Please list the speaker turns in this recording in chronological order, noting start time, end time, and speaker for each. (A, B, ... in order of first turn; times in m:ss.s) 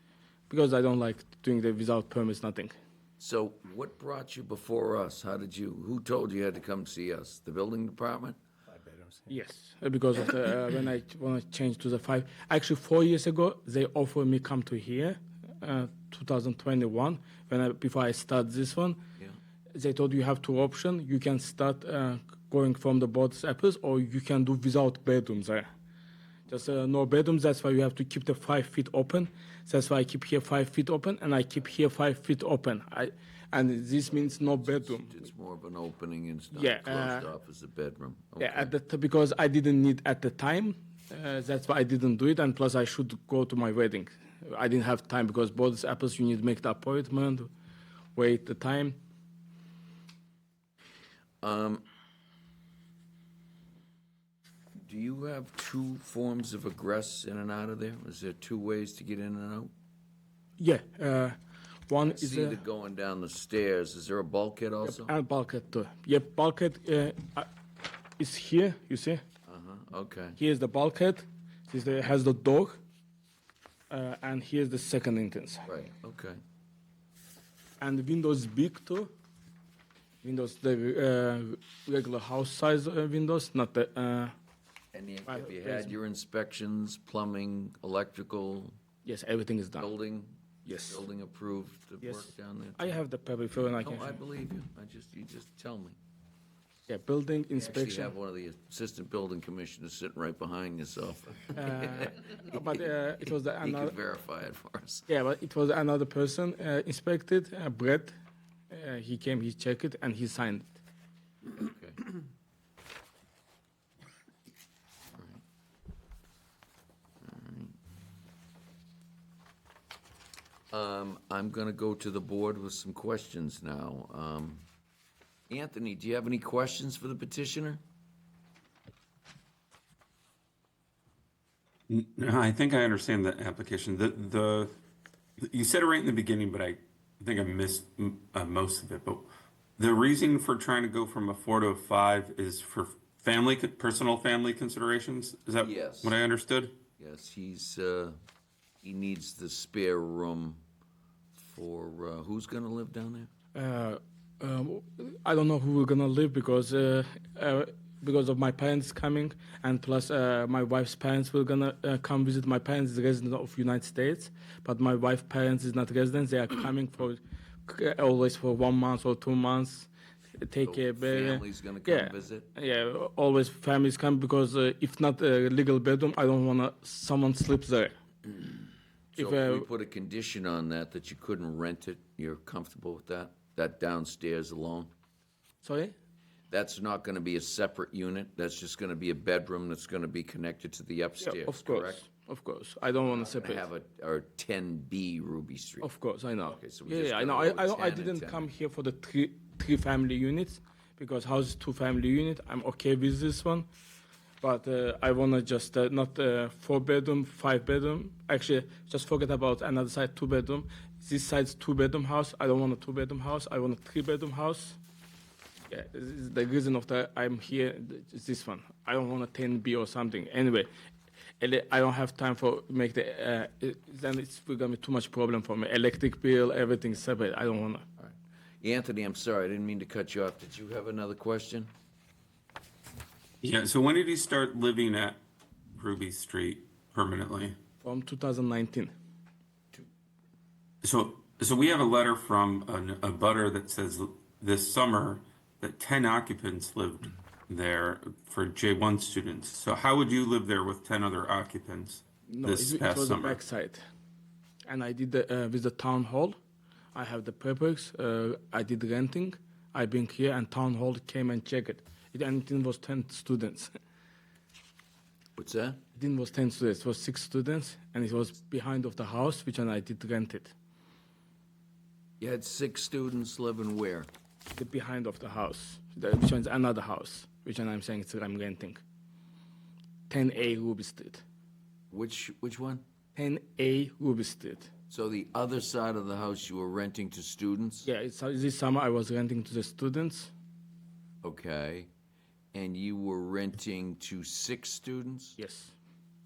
0:00.5-0:02.7 A
0:03.2-0:08.4 B
0:09.3-0:19.0 A
0:19.7-0:25.7 A
0:26.5-0:35.1 A
0:34.0-0:38.7 B
0:36.5-0:37.3 A
0:38.4-0:47.5 A
0:48.2-0:49.0 A
0:51.4-0:51.8 B
0:54.8-0:59.7 B
1:00.6-1:01.4 A
1:01.9-1:02.6 A
1:02.1-1:05.1 B
1:04.8-1:07.5 A
1:08.2-1:09.2 A
1:09.4-1:10.4 B
1:10.4-1:12.8 A
1:13.9-1:15.6 A
1:15.6-1:16.4 B
1:17.8-1:19.1 A
1:20.2-1:24.3 A
1:24.9-1:28.8 B
1:25.3-1:25.9 A
1:29.0-1:29.9 A
1:29.8-1:33.0 B
1:30.7-1:31.0 A
1:32.0-1:34.2 A
1:33.8-1:36.0 B
1:36.9-1:38.1 A
1:37.6-1:42.7 B
1:41.6-1:44.0 A
1:43.6-1:45.1 B
1:45.1-1:48.2 A
1:48.7-1:50.8 A
1:51.5-1:52.0 B
1:55.1-1:55.4 B
1:57.2-1:57.8 B
2:00.7-2:04.6 B
2:05.5-2:07.8 B
2:11.9-2:14.8 C
2:15.4-2:26.8 C
2:25.6-2:26.2 B
2:27.0-2:28.2 B
2:28.8-2:30.6 B
2:31.3-2:33.3 B
2:33.6-2:57.9 A
2:50.6-2:52.5 B
2:59.2-3:04.9 B
2:59.2-2:59.7 A
3:05.6-3:05.9 A
3:06.5-3:12.1 B
3:11.2-3:13.6 A
3:13.1-3:15.9 B
3:15.8-3:23.7 A
3:16.5-3:18.5 B
3:24.4-3:34.8 A
3:35.7-3:40.7 A
3:41.4-3:47.8 A
3:48.0-3:51.7 B
3:53.4-3:55.2 C
3:55.8-3:57.6 C
3:57.8-3:58.9 A
4:00.8-4:13.4 C
4:12.3-4:13.8 A
4:14.7-4:16.4 A
4:16.9-4:23.7 A
4:25.4-4:25.8 B
4:26.0-4:30.5 A
4:32.2-4:34.1 B
4:34.5-4:38.8 A
4:40.1-4:41.2 A
4:41.9-4:42.8 B
4:43.1-4:44.7 A
4:44.9-4:47.9 B
4:47.8-4:50.3 A
4:51.2-4:51.9 B
4:52.5-4:55.4 B
4:55.4-4:55.7 A